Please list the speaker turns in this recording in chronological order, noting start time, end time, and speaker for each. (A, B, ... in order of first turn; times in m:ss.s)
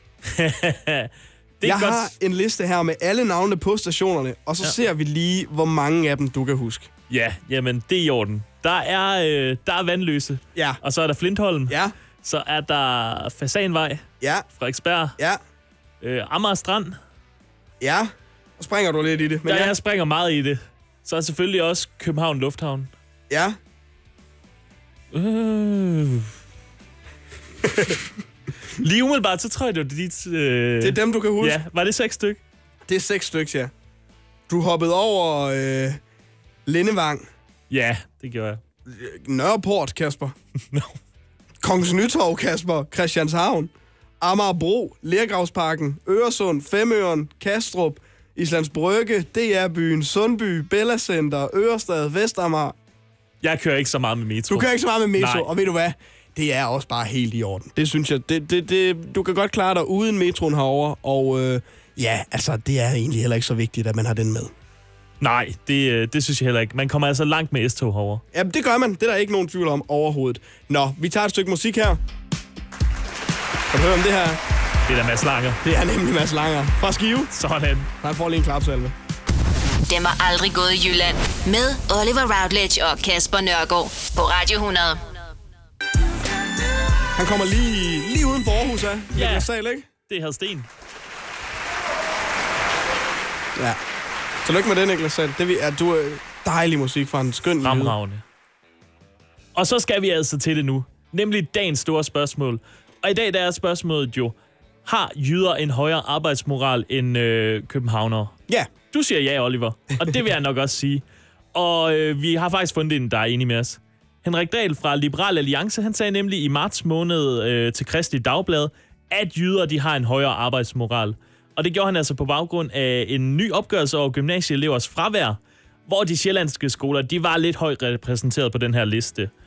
0:00.2-0:02.1 A
0:01.6-0:06.9 B
0:07.1-0:14.0 A
0:10.5-0:10.8 B
0:11.7-0:11.9 B
0:14.2-0:14.4 B
0:14.6-0:15.2 A
0:16.0-0:17.0 A
0:17.8-0:19.7 B
0:19.4-0:22.9 A
0:23.3-0:23.6 B
0:25.1-0:26.3 A
0:27.6-0:28.0 B
0:28.8-0:32.4 A
0:30.8-0:31.6 B
0:32.9-0:33.7 B
0:34.5-0:36.0 B
0:36.6-0:37.3 B
0:37.7-0:38.6 A
0:38.9-0:40.4 B
0:41.6-0:52.8 B
0:53.4-0:55.5 A
0:54.5-1:04.5 B
1:05.2-1:08.2 A
1:08.3-1:12.0 B
1:13.7-1:14.4 B
1:14.9-1:15.6 A
1:15.6-1:17.3 B
1:17.3-1:17.9 A
1:18.0-1:18.9 B
1:19.9-1:25.1 C
1:27.1-1:29.9 B
1:29.1-1:29.5 A
1:30.1-1:30.7 A
1:33.5-1:33.8 B
1:34.4-1:38.0 B
1:37.6-1:38.2 A
1:39.5-1:44.3 A
1:44.8-1:48.3 A
1:48.9-1:51.0 A
1:51.5-2:09.3 A